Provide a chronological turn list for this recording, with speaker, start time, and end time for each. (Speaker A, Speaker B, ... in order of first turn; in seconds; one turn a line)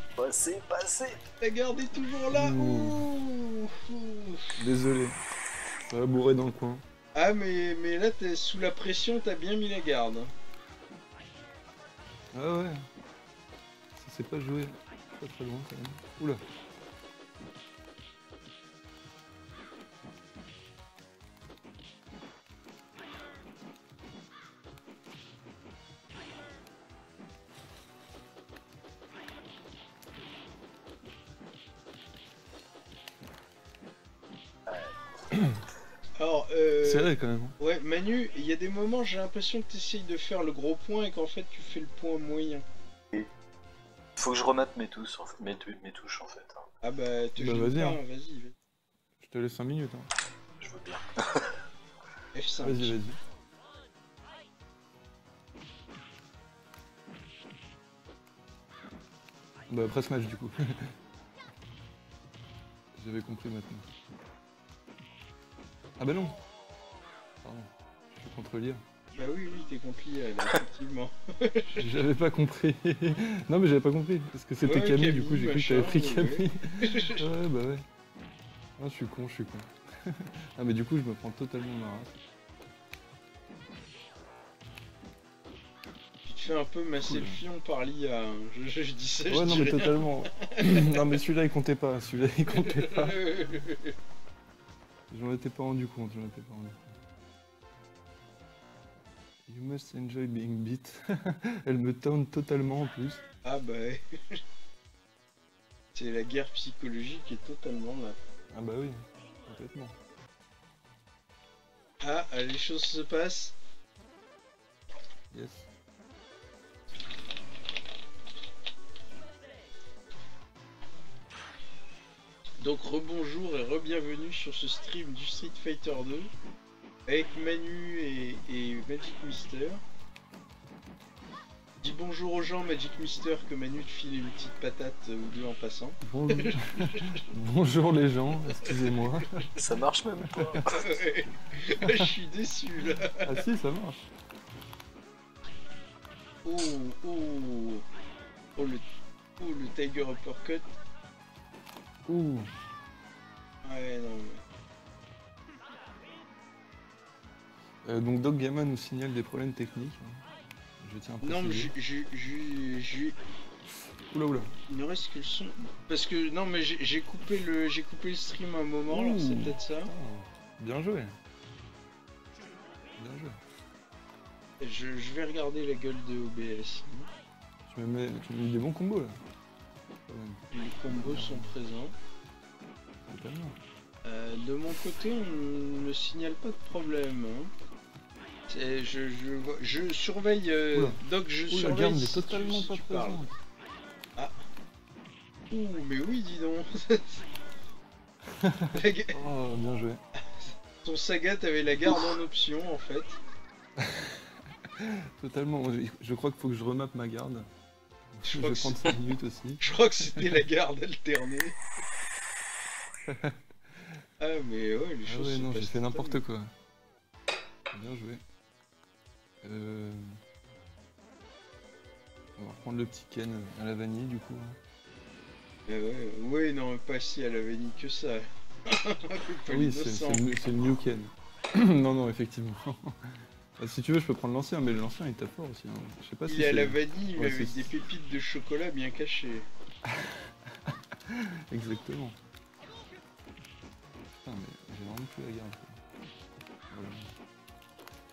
Speaker A: 0.2-1.2
Speaker B: 1.4-4.6
Speaker C: 2.3-3.1
Speaker C: 4.6-5.2
Speaker C: 5.8-6.8
Speaker B: 7.2-10.3
Speaker C: 12.3-12.8
Speaker C: 13.9-16.4
Speaker A: 34.7-35.0
Speaker B: 36.2-42.6
Speaker C: 36.8-37.6
Speaker A: 44.2-46.7
Speaker B: 46.8-48.5
Speaker C: 47.4-48.0
Speaker C: 49.2-50.1
Speaker A: 50.6-51.6
Speaker B: 52.3-53.0
Speaker C: 52.6-53.2
Speaker C: 59.7-60.9
Speaker C: 63.0-63.9
Speaker C: 66.0-66.4
Speaker C: 67.4-68.8
Speaker B: 69.2-71.8
Speaker C: 71.8-77.9
Speaker B: 74.6-77.2
Speaker C: 78.8-82.2
Speaker B: 86.3-91.0
Speaker C: 87.0-87.4
Speaker C: 89.3-93.2
Speaker B: 92.5-94.0
Speaker C: 95.1-96.9
Speaker C: 99.5-103.2
Speaker B: 103.5-104.4
Speaker B: 106.0-108.2
Speaker C: 108.5-110.0
Speaker B: 112.0-113.6
Speaker C: 115.3-115.7
Speaker B: 122.6-126.3
Speaker B: 127.1-129.8
Speaker B: 131.8-137.2
Speaker C: 136.1-139.5
Speaker B: 138.6-139.1
Speaker A: 139.6-141.0
Speaker C: 140.3-140.6
Speaker B: 140.6-143.4
Speaker C: 143.1-144.1
Speaker B: 146.4-147.8
Speaker B: 148.6-148.8
Speaker B: 149.4-150.7
Speaker C: 152.1-152.5
Speaker B: 153.6-154.4
Speaker C: 157.8-160.2
Speaker C: 160.8-161.7
Speaker B: 161.2-163.2
Speaker C: 164.1-164.5
Speaker B: 164.7-169.9
Speaker C: 168.9-171.2
Speaker C: 173.0-173.4
Speaker B: 174.6-177.1
Speaker C: 177.7-179.2
Speaker C: 180.1-181.5
Speaker B: 180.5-181.9
Speaker C: 183.1-183.6
Speaker B: 184.1-187.5
Speaker B: 188.5-193.3
Speaker C: 190.7-193.4
Speaker B: 195.5-197.2
Speaker C: 198.3-200.0
Speaker B: 198.7-199.2
Speaker B: 200.8-203.2
Speaker C: 203.8-204.2
Speaker C: 204.7-207.5
Speaker C: 208.2-209.6
Speaker B: 208.2-209.0
Speaker B: 209.6-211.6
Speaker C: 210.1-210.4
Speaker C: 213.1-213.4
Speaker B: 214.2-216.2
Speaker C: 215.1-216.5
Speaker C: 217.7-218.2
Speaker C: 219.4-220.1
Speaker C: 222.4-224.6
Speaker B: 225.7-230.3
Speaker C: 229.5-237.7
Speaker B: 236.3-239.5
Speaker C: 239.8-242.2
Speaker C: 244.2-245.8
Speaker C: 246.7-247.1